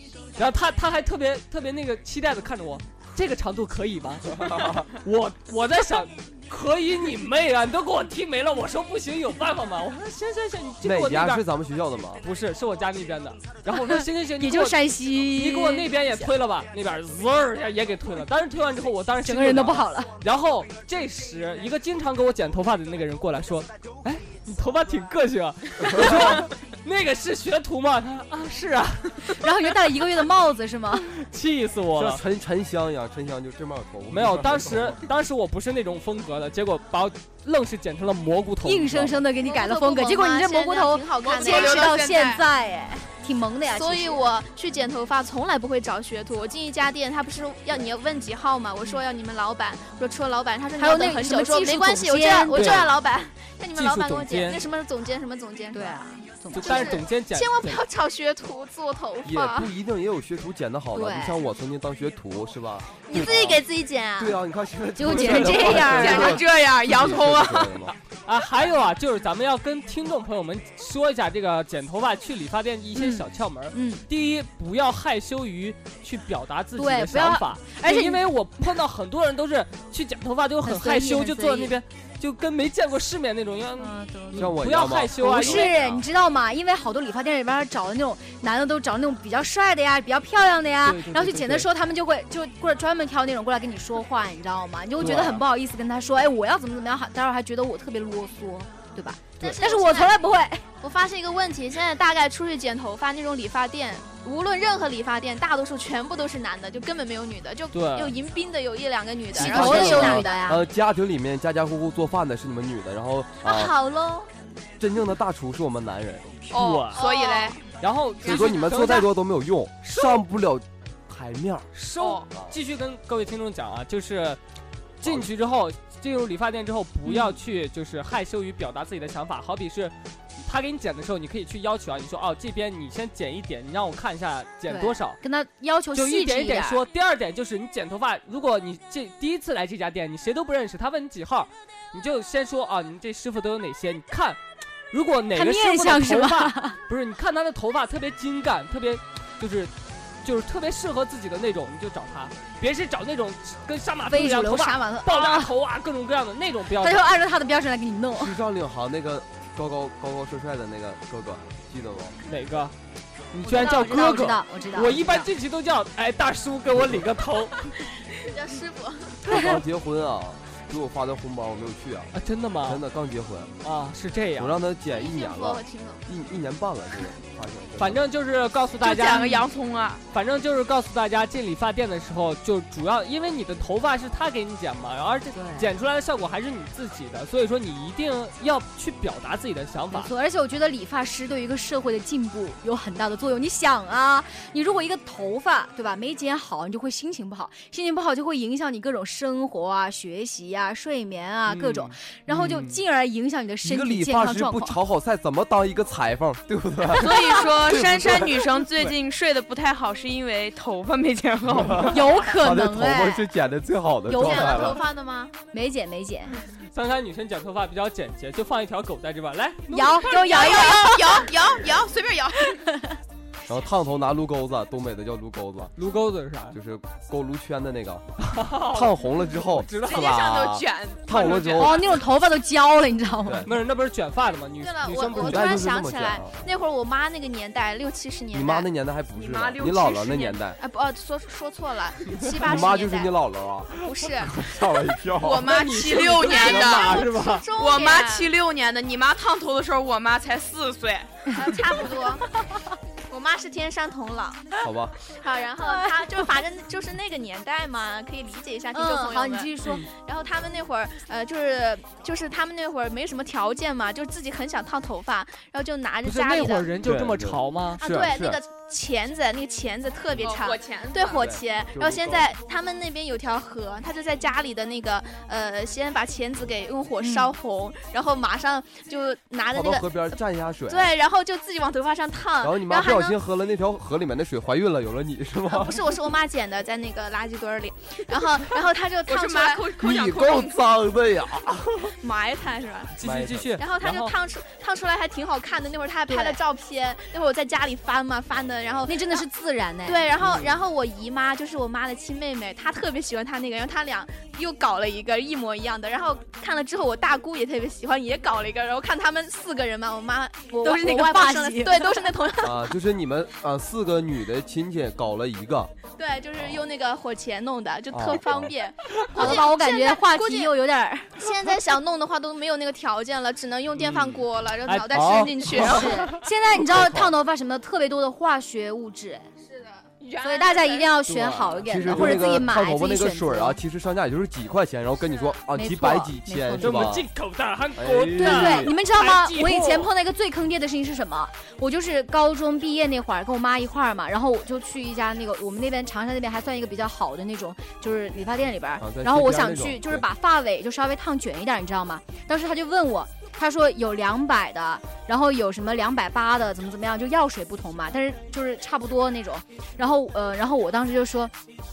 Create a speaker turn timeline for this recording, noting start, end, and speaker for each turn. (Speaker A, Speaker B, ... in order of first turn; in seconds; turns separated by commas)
Speaker A: 0.3-11.4, Speaker B: 4.4-4.8, Speaker B: 10.8-12.2, Speaker A: 12.2-29.4, Speaker C: 13.7-16.3, Speaker C: 19.2-20.1, Speaker C: 29.3-31.1, Speaker A: 31.1-32.2, Speaker B: 31.9-35.0, Speaker A: 34.1-39.2, Speaker C: 38.6-44.2, Speaker D: 39.4-41.9, Speaker E: 41.2-42.4, Speaker D: 43.6-56.0, Speaker C: 50.8-52.9, Speaker A: 52.5-52.9, Speaker A: 53.7-54.6, Speaker C: 55.7-57.0, Speaker A: 56.5-57.8, Speaker D: 56.6-59.7, Speaker B: 59.2-63.6, Speaker C: 60.9-61.4, Speaker D: 63.0-64.4, Speaker B: 64.2-67.9, Speaker C: 65.0-66.4, Speaker A: 65.1-65.7, Speaker E: 65.5-67.8, Speaker A: 68.2-86.0, Speaker C: 72.9-74.0, Speaker C: 76.8-78.2, Speaker C: 80.6-81.7, Speaker C: 83.8-84.5, Speaker B: 84.3-86.0, Speaker C: 85.2-100.6, Speaker A: 90.8-91.7, Speaker A: 95.0-95.4, Speaker D: 99.4-100.2, Speaker D: 100.8-110.4, Speaker A: 107.7-108.1, Speaker C: 109.3-110.6, Speaker B: 109.3-113.7, Speaker D: 113.4-114.3, Speaker B: 114.8-116.6, Speaker E: 116.5-117.6, Speaker A: 116.5-117.0, Speaker D: 116.9-117.6, Speaker A: 117.8-119.1, Speaker B: 118.2-121.7, Speaker A: 121.7-124.4, Speaker E: 122.0-122.2, Speaker A: 125.0-135.2, Speaker C: 127.0-127.3, Speaker C: 134.7-136.8, Speaker A: 135.9-144.4, Speaker A: 144.9-149.7, Speaker C: 145.3-146.8, Speaker A: 150.2-157.0, Speaker C: 154.1-155.5, Speaker C: 156.8-158.3, Speaker B: 158.2-162.2, Speaker A: 162.2-162.7, Speaker A: 163.3-167.8, Speaker C: 163.4-165.3, Speaker D: 168.1-169.2, Speaker B: 169.2-172.1, Speaker C: 169.3-169.5, Speaker A: 172.1-172.8, Speaker B: 172.6-173.5, Speaker A: 173.6-174.6, Speaker B: 174.4-178.0, Speaker D: 174.9-176.0, Speaker A: 177.8-179.5, Speaker E: 178.8-180.0, Speaker A: 180.1-190.1, Speaker C: 185.3-185.7, Speaker C: 189.9-204.8, Speaker A: 201.5-202.8, Speaker B: 202.3-202.7, Speaker B: 203.6-208.6, Speaker E: 206.9-212.1, Speaker B: 211.6-214.8, Speaker C: 211.8-213.3, Speaker C: 214.1-214.8, Speaker D: 214.1-215.3, Speaker C: 215.5-216.3, Speaker A: 216.7-220.5, Speaker C: 219.7-221.4, Speaker E: 220.2-222.6, Speaker C: 222.5-223.0, Speaker B: 223.5-225.7, Speaker A: 225.8-226.6, Speaker B: 226.5-228.0, Speaker A: 228.2-230.2, Speaker B: 228.6-231.8, Speaker E: 229.8-231.8, Speaker C: 231.5-233.5, Speaker B: 233.2-233.5, Speaker A: 233.4-235.6, Speaker D: 234.6-238.7, Speaker B: 235.2-236.3, Speaker B: 238.3-240.6, Speaker E: 239.2-240.4, Speaker D: 240.6-243.1, Speaker B: 242.3-243.7, Speaker D: 243.8-244.4, Speaker B: 244.3-245.5, Speaker D: 245.2-248.3, Speaker E: 245.2-251.1, Speaker A: 245.4-247.4, Speaker D: 251.3-252.2, Speaker D: 253.1-254.5, Speaker B: 254.6-254.9, Speaker D: 255.0-266.7, Speaker C: 255.6-256.1, Speaker C: 258.7-259.9, Speaker A: 266.0-268.0, Speaker B: 266.8-268.4, Speaker D: 267.8-283.2, Speaker E: 270.2-271.3, Speaker B: 271.1-272.3, Speaker C: 277.0-277.3, Speaker B: 279.5-280.9, Speaker B: 282.4-285.8, Speaker D: 285.5-289.7, Speaker E: 289.1-290.6, Speaker B: 289.8-291.9, Speaker D: 292.0-292.9, Speaker A: 292.9-294.1, Speaker B: 293.0-293.5, Speaker D: 293.6-299.2, Speaker C: 296.1-296.4, Speaker C: 298.9-300.1, Speaker D: 299.8-312.7, Speaker B: 300.2-300.5, Speaker C: 310.6-312.1, Speaker B: 312.4-315.7, Speaker D: 316.0-320.6, Speaker B: 317.9-318.5, Speaker C: 319.1-321.3, Speaker D: 321.1-326.1, Speaker A: 323.8-326.1, Speaker B: 324.9-325.8, Speaker C: 325.5-329.3, Speaker B: 326.5-327.1, Speaker E: 330.0-330.9, Speaker C: 330.2-333.6, Speaker A: 331.0-332.3, Speaker B: 331.6-337.0, Speaker C: 335.5-337.0, Speaker A: 336.6-339.9, Speaker B: 337.8-338.7, Speaker C: 338.2-361.3, Speaker B: 348.8-350.1